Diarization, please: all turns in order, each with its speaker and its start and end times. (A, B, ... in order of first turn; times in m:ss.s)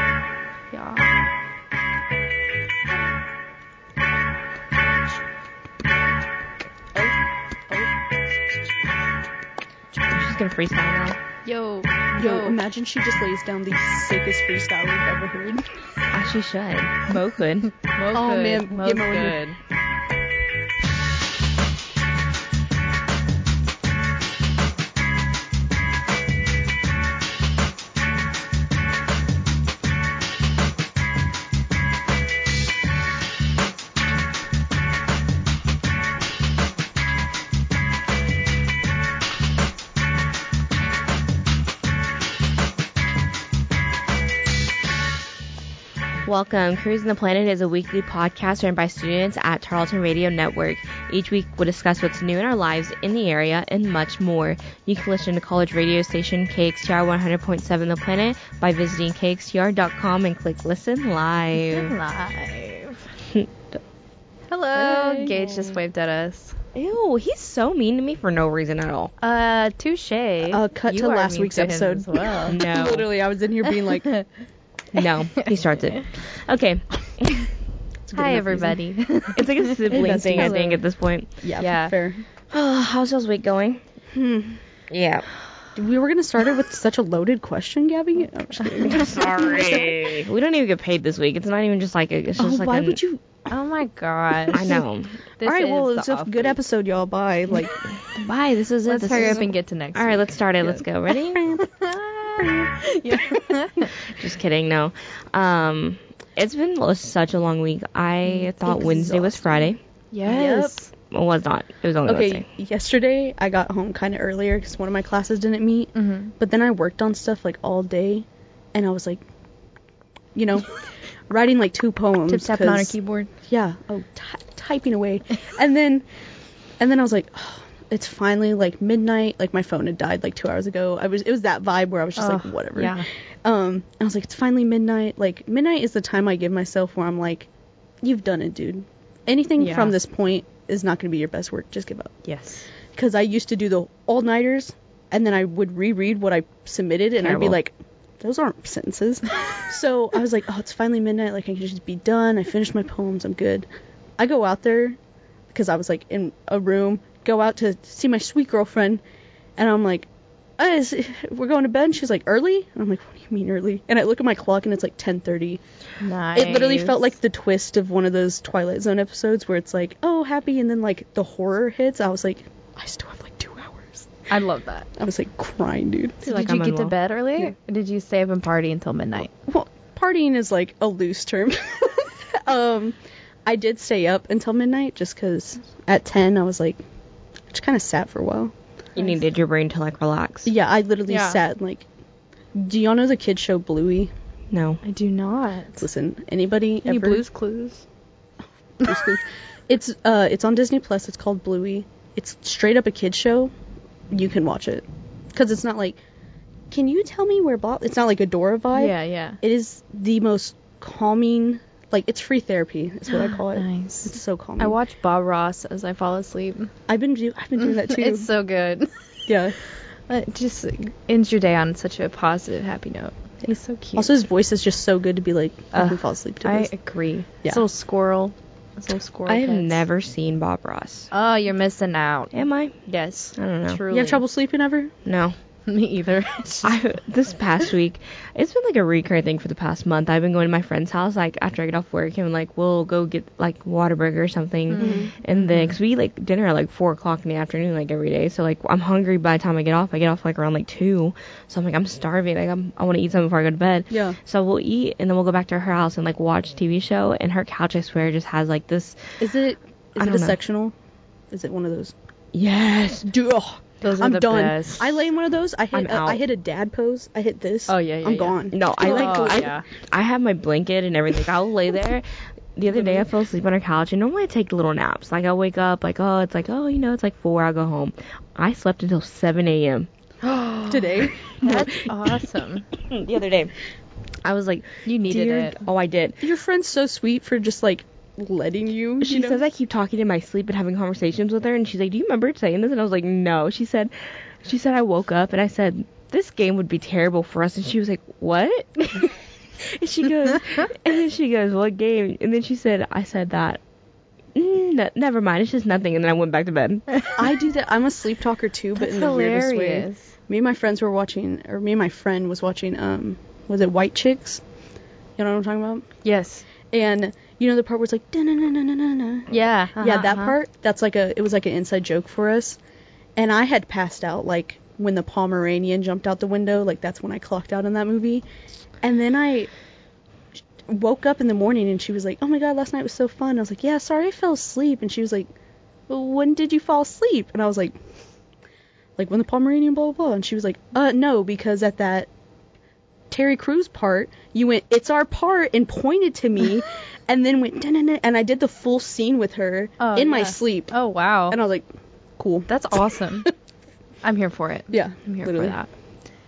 0:00.7-0:01.0 A
0:10.1-0:11.2 B
0:11.4-0:12.6 A
0:12.1-0:15.7 C
0:16.1-0:17.7 B
0:17.9-0:19.6 A
0:18.1-0:19.4 C
0:46.2-1:01.9 B
1:01.6-1:03.0 A
1:04.5-1:06.6 A
1:04.8-1:05.3 C
1:04.9-1:05.8 B
1:06.7-1:09.1 B
1:09.2-1:12.6 A
1:10.5-1:14.1 C
1:12.5-1:13.1 B
1:13.8-1:14.2 A
1:14.9-1:17.5 B
1:18.0-1:18.8 C
1:18.1-1:20.6 A
1:19.3-1:21.3 B
1:19.9-1:20.8 C
1:21.4-1:22.2 C
1:21.6-1:21.9 A
1:22.5-1:23.8 B
1:24.1-1:24.6 C
1:24.9-1:25.3 B
1:25.8-1:30.0 C
1:28.8-1:33.0 B
1:32.4-1:33.2 C
1:33.5-1:34.6 A
1:34.5-1:35.2 B
1:35.4-1:36.6 A
1:35.4-1:37.8 C
1:38.1-1:41.4 B
1:38.8-1:40.8 A
1:41.3-1:41.7 C
1:42.0-1:43.9 A
1:42.4-1:43.4 C
1:44.0-1:49.8 B
1:48.6-1:49.7 C
1:50.1-1:50.9 A
1:50.2-1:50.7 C
1:51.1-1:52.4 B
1:52.0-1:59.2 C
1:55.9-1:56.3 A
2:00.3-2:00.7 C
2:01.3-2:02.9 C
2:02.3-2:03.3 A
2:03.5-2:06.0 C
2:06.8-2:17.5 C
2:12.2-2:13.1 A
2:18.0-2:22.1 C
2:19.6-2:19.9 A
2:22.2-2:22.6 A
2:22.9-2:33.7 C
2:27.2-2:27.6 B
2:34.2-2:35.0 C
2:35.5-2:39.0 C
2:39.6-2:45.6 C
2:46.0-2:47.0 A
2:46.3-2:54.1 C
2:54.3-2:54.9 A
2:55.0-2:56.2 C
2:56.2-2:57.0 B
2:56.2-2:59.3 A
2:59.4-3:06.8 C
3:07.5-3:08.5 C
3:09.0-3:10.5 B
3:10.4-3:11.8 C
3:11.1-3:11.4 A
3:12.5-3:14.1 C
3:14.5-3:14.8 B
3:14.8-3:15.8 A
3:15.8-3:17.2 C
3:16.8-3:17.8 A
3:18.8-3:23.5 C
3:24.1-3:26.0 C
3:26.7-3:34.8 C
3:28.7-3:29.4 A
3:33.1-3:36.7 A
3:36.9-3:38.3 C
3:37.6-3:39.3 A
3:39.3-3:39.6 C
3:40.1-3:44.2 A
3:44.0-3:46.7 C
3:45.7-3:49.8 A
3:49.3-3:51.1 B
3:51.1-3:52.3 A
3:52.3-3:52.7 B
3:52.8-3:54.2 A
3:53.4-3:53.8 B
3:53.9-3:54.9 C
3:55.0-3:55.4 B
3:55.7-3:56.7 A
3:56.6-4:19.0 B
4:04.7-4:05.8 A
4:04.8-4:05.1 C
4:13.9-4:14.2 C
4:19.2-4:20.7 C
4:20.0-4:20.4 B
4:21.3-4:21.9 C
4:22.3-4:23.1 B
4:23.0-4:29.5 C
4:23.8-4:24.9 A
4:25.7-4:26.2 B
4:27.7-4:29.6 A
4:28.5-4:32.0 B
4:32.6-4:40.6 B
4:32.7-4:33.0 C
4:40.7-4:41.3 C
4:41.3-4:41.9 B
4:41.4-4:42.7 A
4:42.8-4:43.5 B
4:44.2-4:46.2 B
4:44.8-4:45.6 A
4:46.2-4:49.4 C
4:49.0-4:53.9 B
4:54.4-5:03.6 B
5:04.3-5:07.2 B
5:07.2-5:14.4 C
5:08.8-5:10.1 A
5:15.2-5:15.9 C
5:16.0-5:16.4 A
5:16.7-5:22.6 C
5:19.3-5:20.4 A
5:23.2-5:28.2 C
5:28.8-5:29.5 C
5:30.6-5:35.3 C
5:35.9-5:37.8 C
5:39.0-5:42.1 C
5:43.1-5:50.8 C
5:49.8-5:51.4 A
5:51.3-5:52.5 C
5:52.5-5:53.3 A
5:54.0-5:55.7 A
5:54.7-5:55.6 C